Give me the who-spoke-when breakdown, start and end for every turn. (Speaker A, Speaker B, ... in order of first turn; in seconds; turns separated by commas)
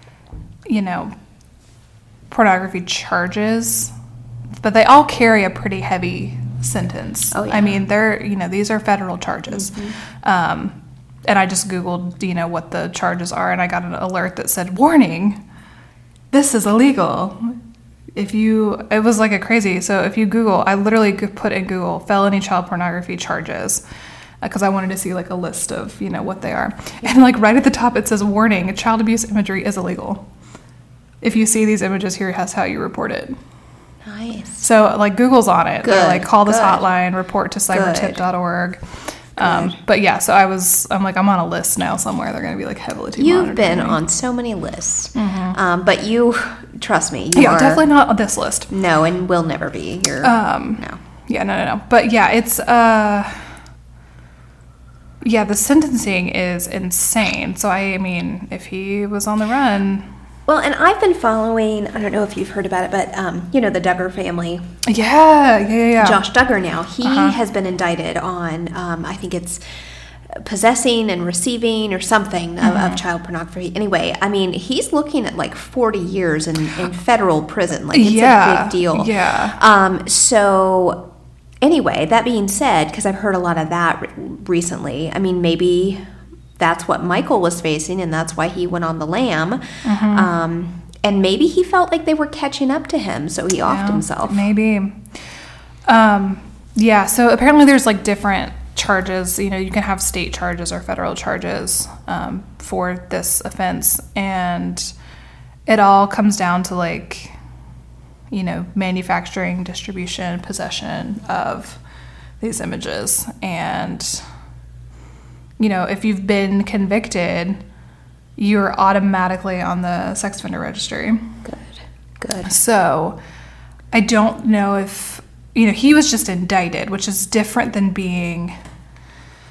Speaker A: 0.7-1.1, Speaker A: 2.3-3.9, Speaker A: 4.6-15.4, Speaker B: 7.3-7.8, Speaker B: 9.5-10.0, Speaker A: 16.3-17.6, Speaker A: 18.1-23.8, Speaker A: 24.4-30.2, Speaker A: 31.2-33.4, Speaker B: 34.0-34.6, Speaker A: 34.6-38.8, Speaker B: 35.8-36.8, Speaker B: 37.7-38.2, Speaker A: 39.4-44.0, Speaker B: 39.4-39.8, Speaker B: 43.2-47.8, Speaker A: 45.1-45.6, Speaker A: 47.3-48.7, Speaker B: 48.7-51.0, Speaker A: 50.2-53.5, Speaker A: 55.2-60.0, Speaker B: 60.5-64.7, Speaker A: 64.8-66.2, Speaker B: 66.0-69.6, Speaker A: 67.0-67.4, Speaker B: 70.3-81.0, Speaker A: 72.6-73.0, Speaker A: 77.9-79.6, Speaker B: 81.6-86.0, Speaker B: 86.6-94.4, Speaker A: 89.8-90.3, Speaker A: 93.7-95.0, Speaker A: 95.8-104.9, Speaker A: 105.7-107.3, Speaker A: 108.3-111.8, Speaker A: 112.4-114.2, Speaker A: 115.6-117.6, Speaker A: 118.4-121.3, Speaker B: 121.4-122.5, Speaker A: 122.4-123.2, Speaker A: 123.9-128.5